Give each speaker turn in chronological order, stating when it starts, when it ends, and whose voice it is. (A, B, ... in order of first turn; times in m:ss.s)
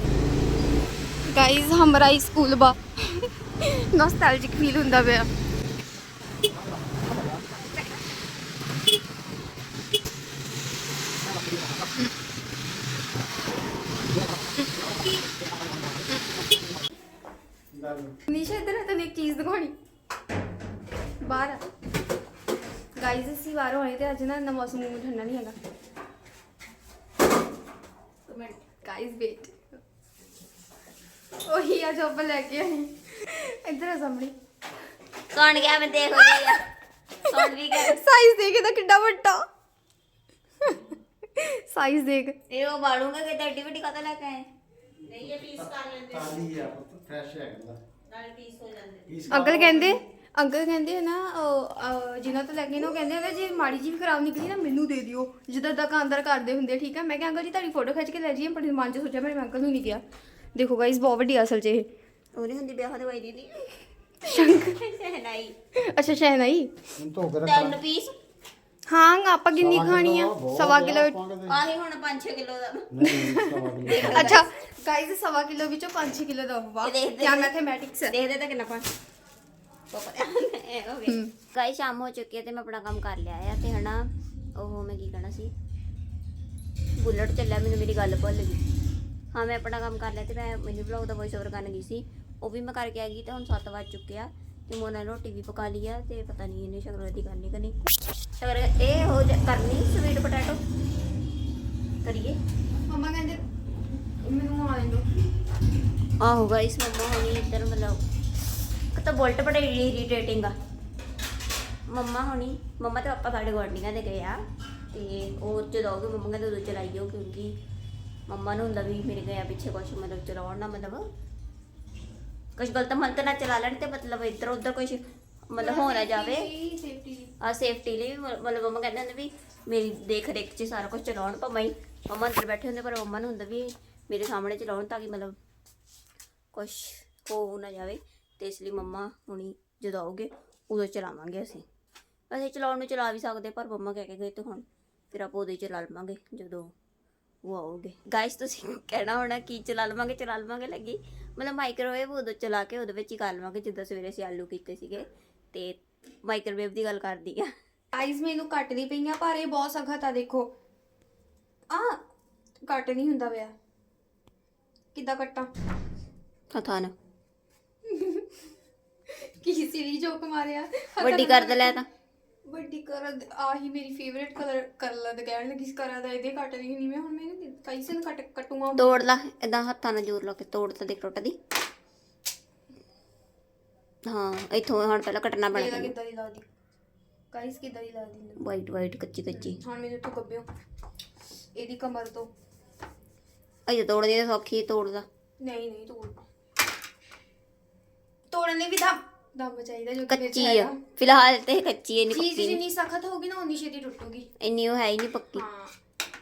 0:01.2-0:05.3 A
0:17.7-0:18.2 B
0:18.3-0:19.8 A
0:21.2-0:21.6 A
0:23.0-0:25.6 A
0:28.8-0:29.6 A
0:31.4-0:34.3 A
0:35.3-0:36.6 C
0:36.0-0:36.4 A
0:37.3-0:38.0 C
0:37.3-0:39.4 A
0:41.4-0:42.4 A
0:42.5-0:44.5 C
0:45.0-0:46.4 D
0:45.2-0:47.8 B
0:48.1-0:49.2 D
0:49.1-0:50.0 B
0:49.3-1:00.0 A
1:00.6-1:01.9 A
1:02.4-1:03.7 C
1:04.2-1:04.7 A
1:04.3-1:05.6 C
1:05.8-1:06.7 A
1:07.0-1:07.8 B
1:07.4-1:08.1 C
1:08.9-1:11.2 A
1:09.5-1:11.6 B
1:11.5-1:12.9 C
1:12.9-1:14.4 B
1:13.0-1:18.1 A
1:13.9-1:14.4 C
1:16.8-1:17.5 C
1:18.1-1:18.9 C
1:19.9-1:24.0 C
1:21.1-1:21.3 A
1:24.6-1:25.5 C
1:27.0-1:28.6 C
1:29.3-1:37.8 C
1:38.4-1:40.6 C
1:42.0-1:42.4 C
1:42.9-1:45.1 A
1:46.2-1:48.0 C
1:48.9-1:50.5 C
1:51.9-1:54.4 C
1:54.9-1:57.5 C
1:58.3-2:01.0 C
2:02.6-2:06.5 C
2:05.6-2:07.3 A
2:07.4-2:15.4 C
2:16.5-2:21.6 C
2:22.3-2:26.7 C
2:27.4-2:37.5 C
2:37.9-2:40.5 A
2:41.7-2:42.0 A
2:42.7-2:43.5 A
2:44.9-2:45.5 A
2:46.5-2:46.9 C
2:47.9-2:48.3 A
2:49.2-2:51.8 A
2:51.0-2:51.9 C
2:52.5-2:59.0 A
2:58.8-3:01.4 C
3:04.1-3:05.9 C
3:05.5-3:06.5 A
3:07.3-3:08.4 A
3:08.4-3:09.6 C
3:09.3-3:10.5 A
3:11.6-3:12.3 A
3:13.7-3:15.1 C
3:15.4-3:16.2 A
3:18.3-3:20.8 A
3:20.1-3:22.6 C
3:22.1-3:24.3 A
3:24.4-3:25.4 C
3:25.4-3:25.7 A